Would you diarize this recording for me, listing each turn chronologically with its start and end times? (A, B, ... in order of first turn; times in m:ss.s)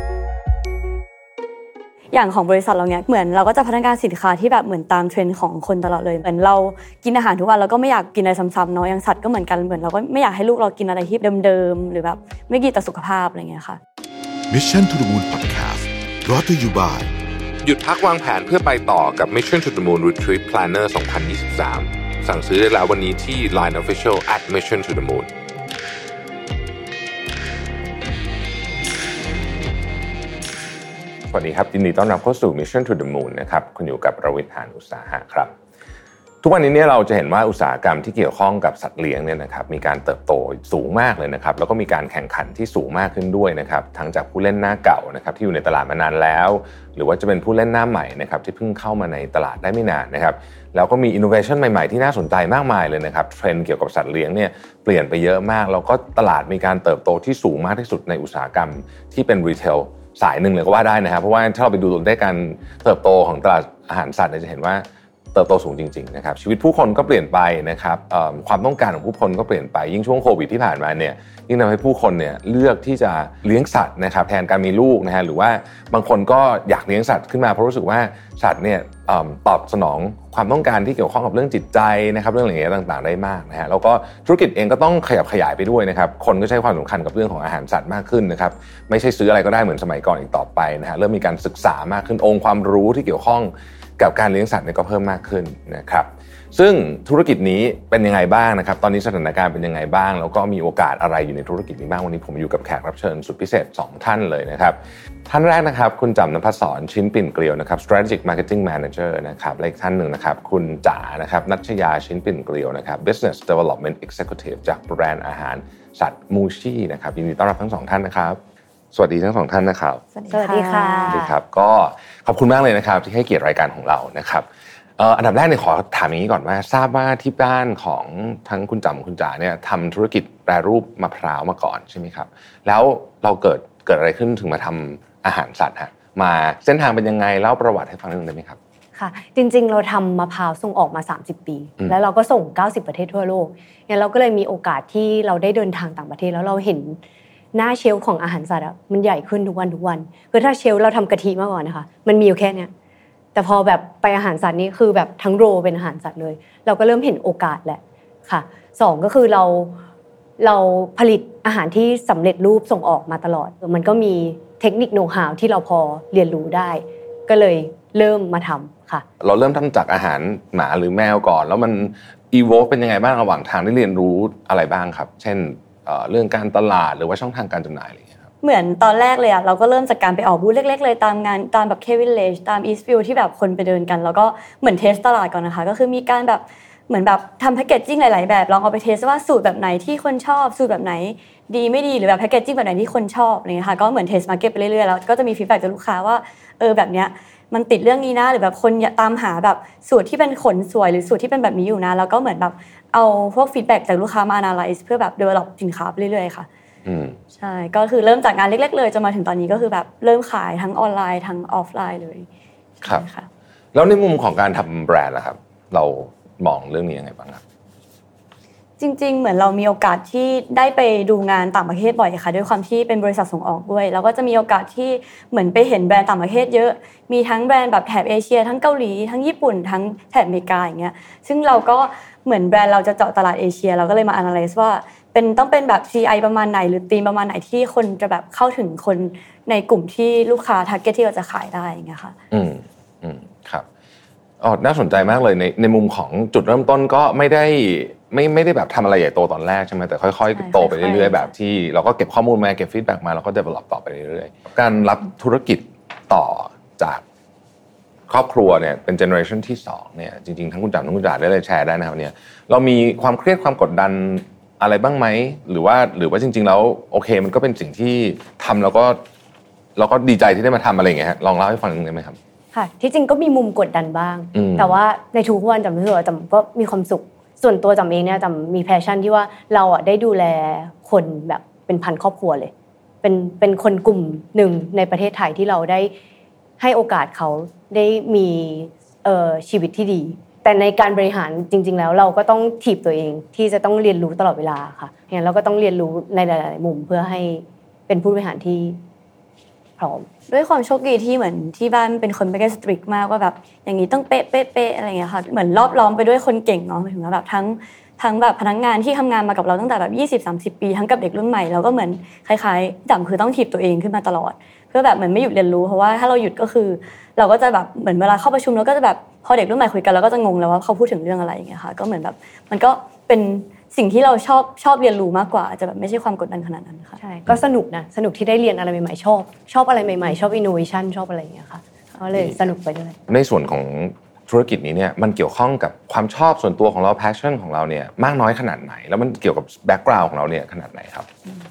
0:02.1-0:13.8 A
0:14.5-0:17.1 B
0:17.6-0:25.3 C
0:31.3-0:35.5 C
0:36.4-1:58.4 C
1:58.9-2:00.0 C
2:00.1-2:01.2 A
2:00.3-2:01.3 D
2:01.1-2:04.5 C
2:05.0-2:18.6 C
2:19.0-2:27.0 D
2:27.5-2:32.7 D
2:33.4-2:39.8 D
2:40.4-2:49.0 D
2:49.2-2:58.3 C
2:58.4-3:26.5 A
3:26.8-3:27.2 C
3:27.3-3:32.3 A
3:32.8-3:33.3 A
3:33.7-3:37.4 C
3:38.8-4:02.2 A
4:02.3-4:03.6 C
4:04.4-4:17.0 C
4:10.3-4:11.3 A
4:18.1-4:29.0 C
4:29.8-4:32.2 C
4:32.5-4:42.5 D
4:34.4-4:34.8 C
4:43.0-4:45.9 D
4:46.6-4:58.8 D
4:59.8-5:00.1 D
5:00.3-5:27.0 A
5:27.0-5:33.0 D
5:33.1-5:41.1 C